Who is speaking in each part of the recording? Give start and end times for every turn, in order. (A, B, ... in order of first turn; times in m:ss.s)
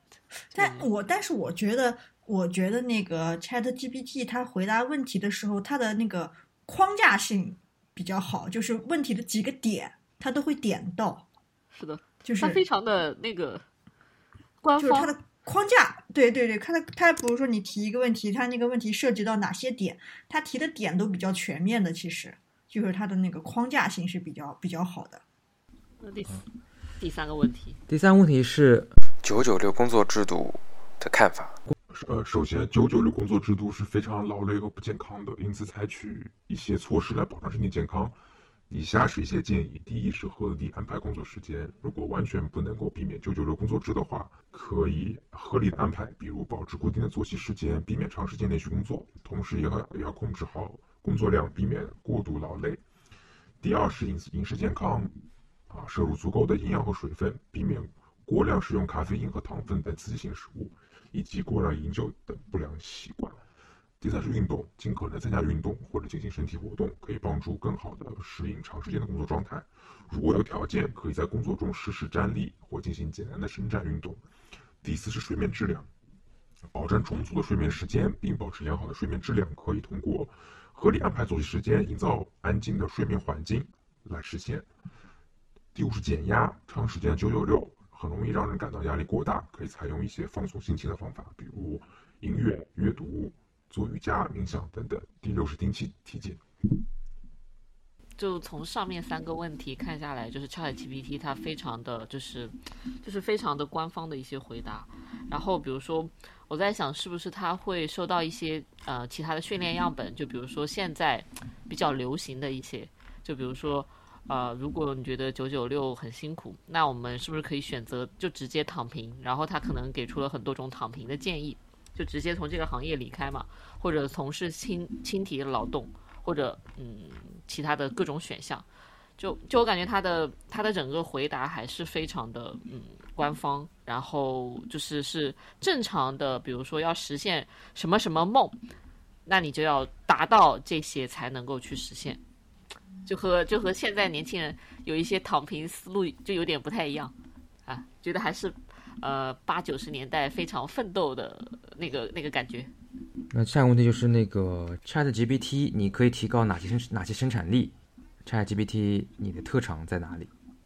0:00.5-0:00.9 A
0:00.5-0:11.2 B
0:11.7-0:13.6 A
0:12.2-0:12.6 B
0:14.6-0:15.1 A
0:14.8-0:25.2 B
0:26.0-0:26.4 A
0:27.0-0:27.8 A
0:27.9-0:28.9 C
0:29.2-0:31.6 D
0:31.9-0:38.2 E
0:38.7-0:52.8 E
0:53.6-0:55.1 E
0:55.7-1:03.4 E
1:04.0-1:14.2 E
1:14.8-1:15.9 E
1:16.7-1:24.7 E
1:25.7-1:36.4 E
1:38.2-2:08.6 A
2:09.2-2:18.6 A
2:19.2-2:22.2 A
2:23.0-2:27.1 A
2:27.6-2:32.7 A
2:33.3-2:37.7 C
2:38.2-2:40.3 C